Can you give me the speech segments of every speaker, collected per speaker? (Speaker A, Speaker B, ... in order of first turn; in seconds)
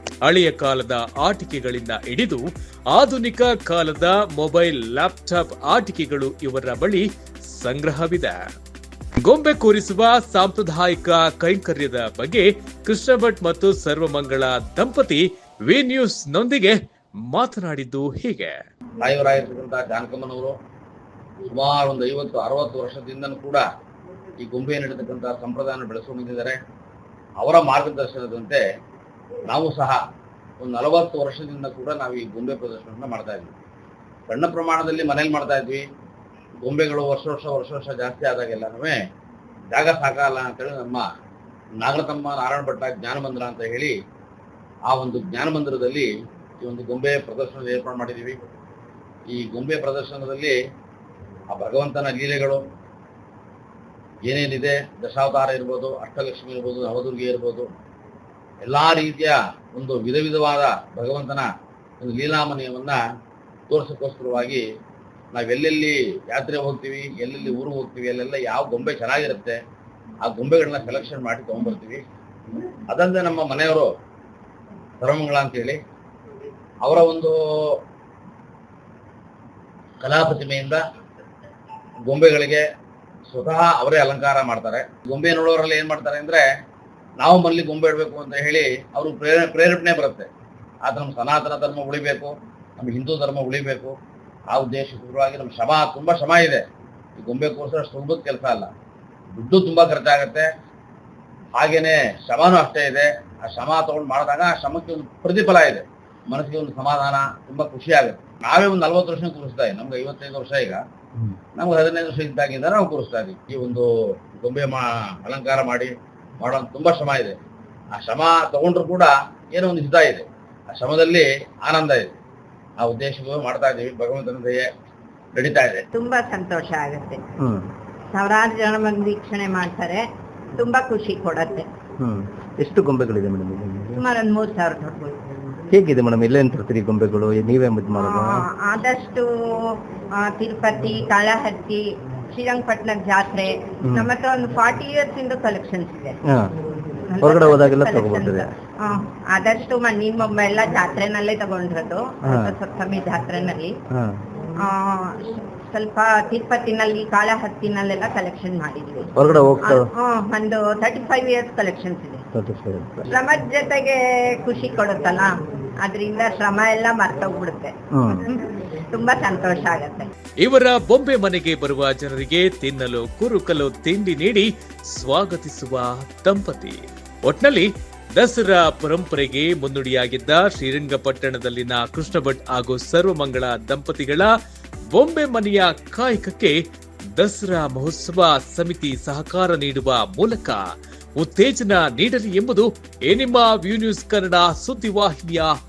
Speaker A: 0.2-8.4, 9.2-18.5, 170.4-184.3, 184.9-186.5, 187.2-190.6, 191.2-195.5
Speaker B: 19.0-20.6, 21.5-23.6, 24.4-26.6, 27.4-28.6, 29.5-30.0, 30.6-33.5, 34.3-35.8, 36.6-39.0, 39.7-41.0, 41.8-43.9, 44.9-46.1, 46.6-48.4, 49.3-50.5, 51.5-52.6, 54.3-57.7, 58.6-61.5, 62.0-63.0, 63.7-64.6, 65.3-69.6, 70.2-72.0, 72.9-73.9, 75.0-75.8, 76.8-77.8, 80.0-80.8, 82.0-82.6, 83.3-86.4, 87.2-90.3, 90.8-94.0, 94.5-96.6, 97.2-98.7, 99.3-100.5, 101.5-110.8, 111.5-117.4, 117.9-122.2, 122.8-124.7, 125.3-125.8
Speaker C: 125.9-127.2, 128.1-130.0, 130.6-131.7, 134.0-135.4, 138.0-146.2, 147.0-153.7, 154.5-159.1, 159.6-162.2, 163.1-170.1
Speaker D: 127.4-127.7, 132.0-134.0, 135.7-138.4, 146.2-146.5, 147.2-148.5, 152.2-152.6, 153.9-154.2, 159.2-159.8, 162.3-163.0, 167.9-168.2